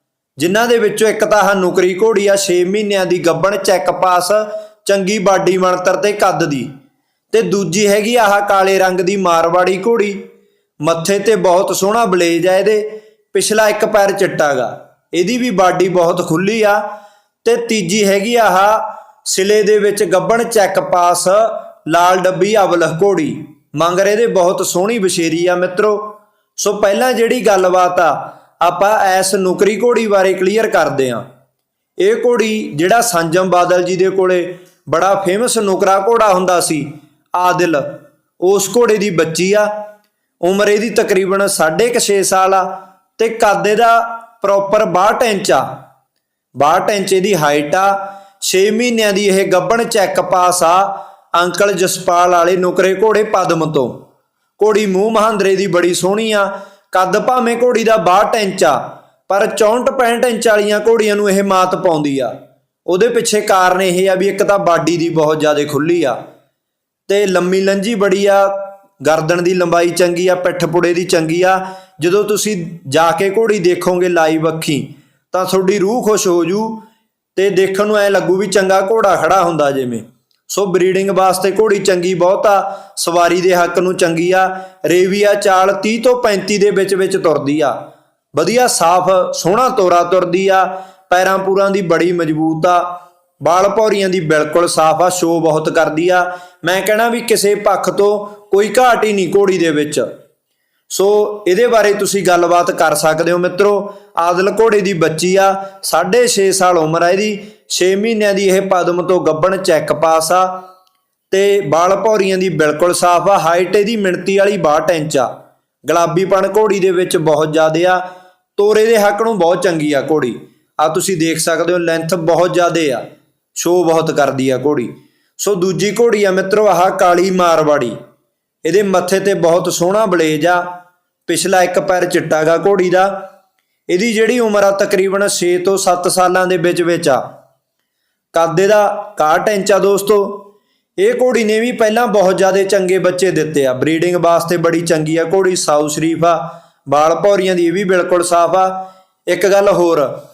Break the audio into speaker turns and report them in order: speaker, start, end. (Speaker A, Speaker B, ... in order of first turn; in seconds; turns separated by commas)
Speaker A: 0.4-6.7, Speaker A: 7.3-10.2, Speaker A: 10.8-16.9, Speaker A: 17.4-31.2, Speaker A: 32.0-39.8, Speaker A: 40.4-45.7, Speaker A: 46.6-54.0, Speaker A: 54.6-62.3, Speaker A: 62.9-66.2, Speaker A: 67.1-76.8, Speaker A: 77.4-87.8, Speaker A: 88.3-100.1, Speaker A: 100.9-110.7, Speaker A: 111.3-115.3, Speaker A: 115.8-118.0, Speaker A: 118.6-123.0, Speaker A: 123.6-128.0, Speaker A: 128.6-130.7, Speaker A: 131.3-133.3, Speaker A: 133.9-137.2, Speaker A: 138.3-150.1